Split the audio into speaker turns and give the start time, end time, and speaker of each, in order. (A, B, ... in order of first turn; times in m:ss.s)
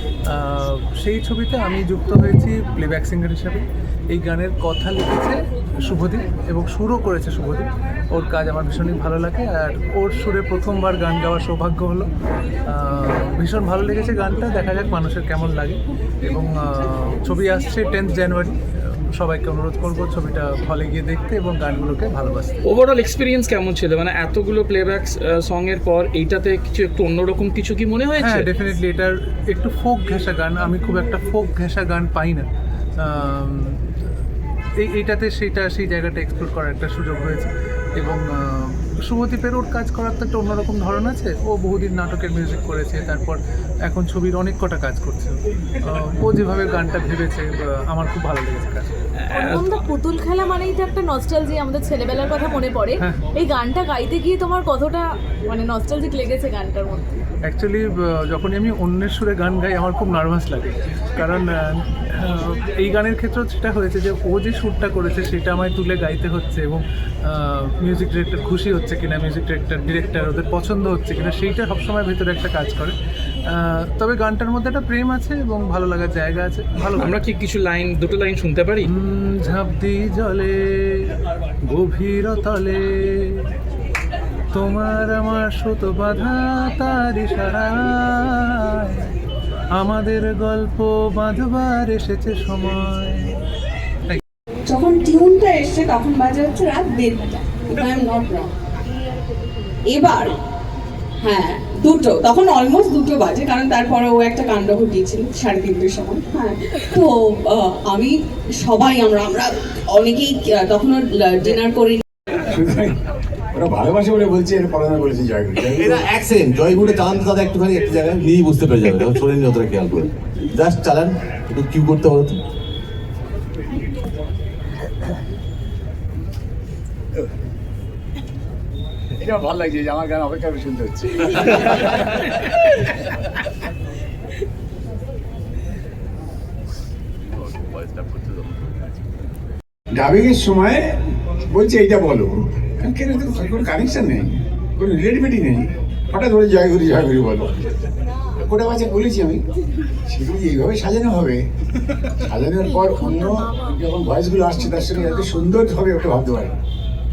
0:00.3-0:12.1 A
0:12.6-0:22.5 A
0:22.6-0:28.5 B
0:28.2-0:32.5 A
0:33.0-0:33.8 A
0:34.8-0:48.9 A
0:49.2-0:49.7 B
0:49.3-0:57.2 C
0:53.0-0:53.2 A
0:57.5-1:13.0 A
1:13.5-1:17.1 A
1:17.0-1:18.9 B
1:18.9-1:21.1 A
1:21.6-1:23.4 A
1:24.5-1:29.1 A
1:29.8-1:33.4 A
1:34.7-1:38.5 D
1:39.9-1:40.3 D
1:41.2-1:52.0 D
1:52.4-1:53.0 E
1:53.5-1:56.0 E
1:55.6-2:02.4 F
2:09.2-2:12.8 E
2:19.9-2:27.5 E
2:28.4-2:29.4 E
2:30.1-2:31.4 E
2:32.1-2:36.6 E